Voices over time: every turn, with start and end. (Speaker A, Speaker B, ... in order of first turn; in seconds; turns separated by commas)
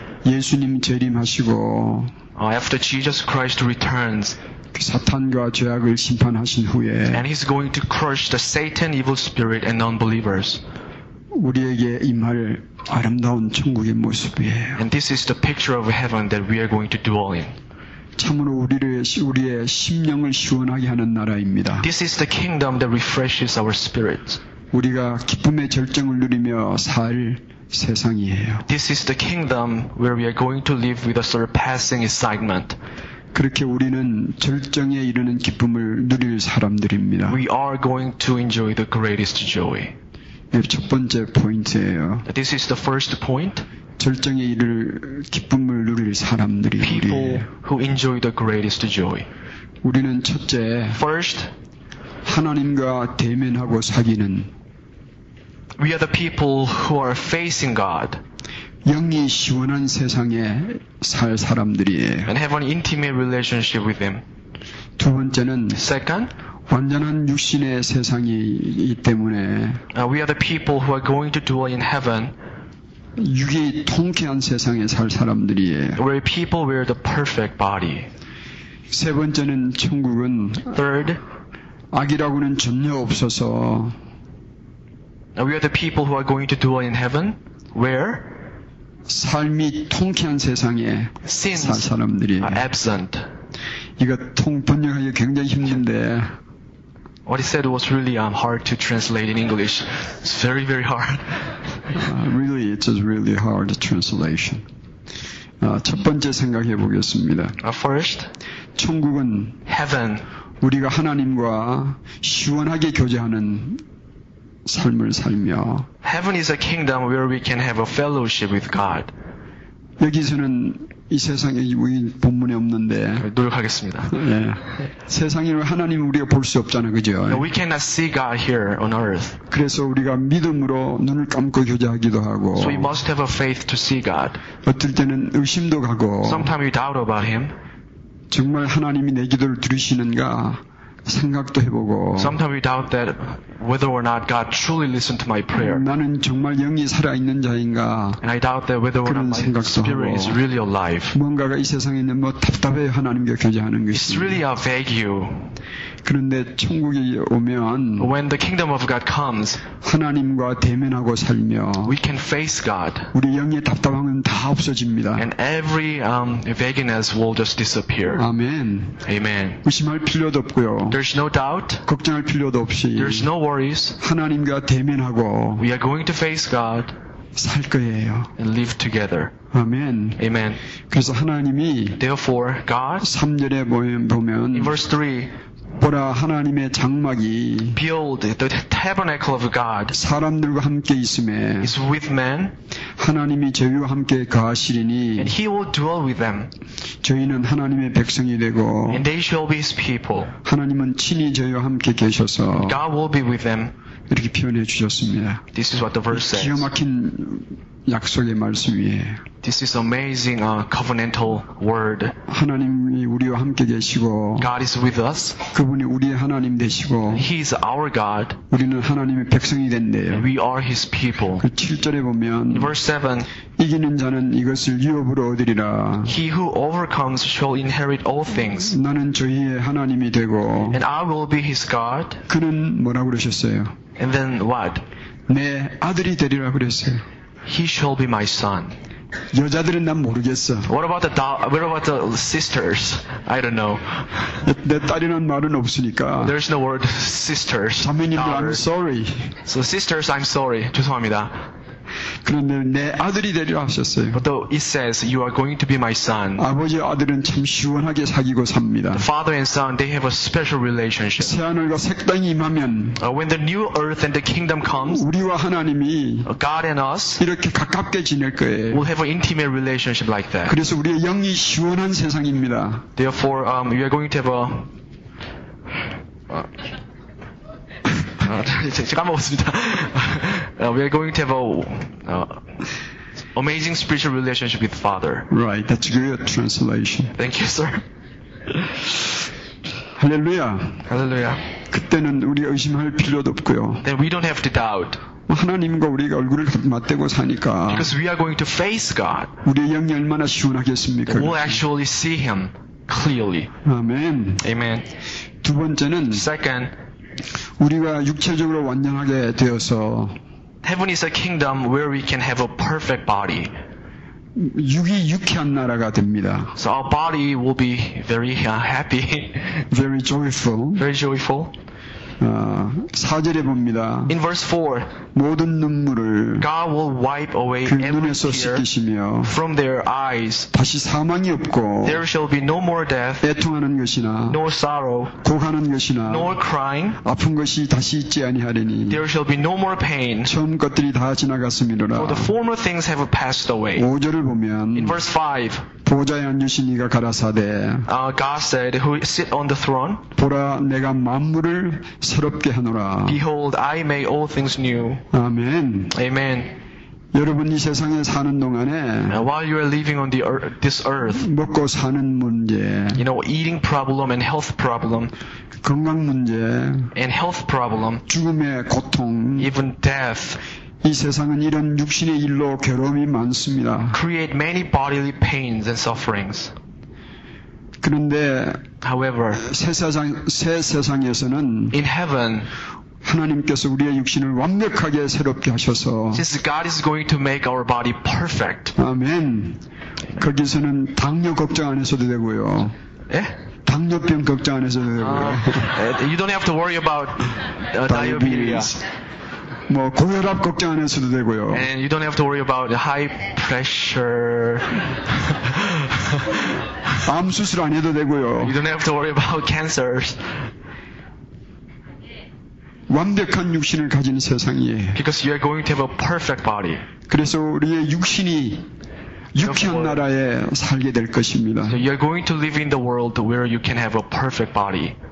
Speaker A: 0.2-2.1, Speaker B: 2.4-4.4, Speaker A: 4.7-7.3, Speaker B: 7.1-10.6, Speaker A: 11.3-14.8, Speaker B: 14.8-17.5, Speaker A: 18.2-21.9, Speaker B: 21.8-24.4, Speaker A: 24.7-28.7, Speaker B: 28.7-32.8, Speaker A: 33.3-37.4, Speaker B: 37.3-39.9, Speaker A: 40.5-42.3, Speaker B: 42.2-43.7, Speaker A: 44.0-47.5, Speaker B: 46.8-49.3, Speaker A: 49.8-51.0, Speaker B: 50.9-51.5, Speaker A: 52.2-54.5, Speaker B: 55.8-58.2, Speaker A: 58.8-62.3, Speaker B: 62.2-64.2, Speaker A: 65.0-65.8, Speaker B: 65.7-66.3, Speaker A: 66.7-69.8, Speaker B: 69.9-72.3, Speaker A: 73.2-76.0, Speaker B: 76.0-78.1, Speaker A: 78.9-80.8, Speaker B: 80.7-81.2, Speaker A: 81.9-83.9, Speaker B: 85.4-88.4, Speaker A: 89.1-92.7, Speaker B: 91.2-93.3, Speaker A: 94.0-96.3, Speaker B: 97.2-101.5, Speaker A: 101.9-104.6, Speaker A: 105.6-107.6, Speaker B: 107.6-108.3, Speaker A: 108.8-109.6, Speaker B: 109.7-110.2, Speaker A: 110.6-113.8, Speaker A: 114.7-115.9, Speaker B: 116.0-119.1, Speaker A: 120.0-123.3, Speaker B: 123.2-124.2, Speaker A: 124.1-127.5, Speaker B: 127.3-129.4, Speaker A: 129.5-133.0, Speaker B: 132.6-134.4, Speaker A: 134.6-136.5, Speaker B: 136.2-137.6, Speaker A: 138.3-142.4, Speaker B: 142.2-145.9, Speaker A: 145.5-148.2, Speaker B: 148.2-151.2, Speaker A: 149.0-150.4, Speaker A: 151.1-154.4, Speaker B: 153.9-155.6, Speaker A: 156.0-158.1, Speaker B: 158.0-159.6, Speaker A: 159.8-161.9, Speaker B: 161.8-163.1, Speaker A: 163.1-165.3, Speaker B: 165.2-168.2, Speaker A: 168.1-169.0, Speaker B: 169.0-169.6, Speaker A: 169.6-171.0, Speaker B: 170.9-171.8, Speaker A: 171.8-173.3, Speaker B: 172.9-174.0, Speaker A: 174.0-175.7, Speaker B: 175.6-176.9, Speaker A: 177.3-178.3, Speaker B: 178.4-179.3, Speaker A: 179.5-180.2, Speaker B: 180.2-180.6, Speaker A: 180.9-182.0, Speaker B: 182.0-183.1, Speaker A: 183.0-184.8, Speaker B: 184.5-185.3, Speaker A: 185.8-187.8, Speaker B: 187.7-190.0, Speaker A: 189.9-191.8, Speaker B: 191.6-192.5, Speaker A: 193.0-195.3, Speaker B: 195.2-196.5, Speaker A: 197.0-199.0, Speaker B: 198.9-200.3, Speaker A: 200.4-202.8, Speaker B: 202.5-203.7, Speaker A: 204.1-205.4, Speaker B: 205.5-206.7, Speaker A: 206.1-209.2, Speaker B: 209.4-212.2, Speaker A: 212.3-214.5, Speaker B: 214.4-215.4, Speaker A: 215.5-217.3, Speaker B: 217.1-218.4, Speaker A: 218.5-220.3, Speaker B: 220.1-221.4, Speaker A: 221.4-222.8, Speaker B: 222.5-223.3, Speaker A: 223.6-226.1, Speaker B: 226.1-228.8, Speaker A: 228.6-230.8, Speaker B: 230.7-232.2, Speaker A: 232.3-233.7, Speaker B: 234.0-234.8, Speaker A: 235.3-237.0, Speaker B: 237.5-238.8, Speaker A: 239.3-240.7, Speaker B: 240.7-244.3, Speaker A: 244.4-246.3, Speaker B: 246.2-248.6, Speaker A: 247.8-249.3, Speaker B: 249.4-251.4, Speaker A: 252.2-254.2, Speaker B: 254.1-256.5, Speaker A: 256.4-259.1, Speaker B: 258.9-261.4, Speaker A: 261.2-263.0, Speaker B: 263.0-265.1, Speaker A: 264.8-266.3, Speaker B: 266.2-267.2, Speaker A: 267.2-268.8, Speaker B: 268.7-270.6, Speaker A: 270.5-272.9, Speaker B: 273.0-274.7, Speaker B: 278.1-282.4, Speaker B: 283.4-285.3, Speaker A: 285.3-287.2, Speaker B: 287.2-287.8, Speaker A: 290.0-290.9, Speaker B: 290.9-291.4, Speaker A: 291.7-293.9, Speaker B: 293.8-295.0, Speaker A: 295.3-297.9, Speaker B: 297.7-299.3, Speaker A: 299.4-301.6, Speaker B: 301.1-303.5, Speaker A: 303.6-304.4, Speaker B: 304.4-304.9, Speaker A: 305.4-306.3, Speaker B: 306.1-306.7, Speaker A: 307.6-310.2, Speaker B: 310.6-313.5, Speaker A: 314.4-316.6, Speaker B: 316.6-319.7, Speaker A: 319.7-320.9, Speaker B: 320.8-321.5, Speaker A: 322.2-324.2, Speaker B: 324.1-324.9, Speaker A: 325.1-326.5, Speaker B: 326.4-328.6, Speaker A: 327.6-329.3, Speaker B: 329.2-330.5, Speaker A: 330.5-332.0, Speaker B: 331.8-333.3, Speaker A: 333.2-334.4, Speaker B: 334.3-335.1, Speaker A: 335.2-336.4, Speaker B: 336.1-337.0, Speaker A: 337.0-339.0, Speaker B: 338.9-340.4, Speaker A: 340.2-342.3, Speaker B: 341.9-343.9, Speaker A: 343.8-345.0, Speaker B: 344.8-345.7, Speaker A: 345.8-347.9, Speaker B: 347.9-350.0, Speaker A: 350.1-353.2, Speaker B: 353.1-355.0, Speaker A: 355.1-356.0, Speaker B: 355.9-356.5, Speaker A: 357.1-359.2, Speaker B: 359.1-361.3, Speaker A: 361.1-363.0, Speaker B: 362.9-365.1, Speaker A: 365.6-366.9, Speaker B: 366.9-368.0, Speaker A: 368.1-369.5, Speaker B: 369.4-370.4, Speaker A: 370.8-374.0, Speaker B: 373.9-376.5, Speaker A: 377.8-378.6, Speaker B: 378.8-379.4, Speaker A: 379.3-381.8, Speaker B: 381.7-382.5, Speaker A: 383.0-386.2, Speaker B: 386.1-388.8, Speaker A: 388.8-389.6, Speaker A: 390.1-392.7, Speaker B: 393.1-393.4, Speaker A: 393.6-395.8, Speaker B: 395.0-398.8, Speaker A: 397.9-398.8, Speaker A: 399.7-401.7, Speaker B: 401.5-406.5, Speaker A: 407.0-408.6, Speaker B: 408.4-410.3, Speaker A: 412.9-415.0, Speaker B: 414.9-416.9, Speaker A: 417.1-418.7, Speaker A: 419.3-421.8, Speaker B: 419.4-420.0, Speaker B: 421.7-425.0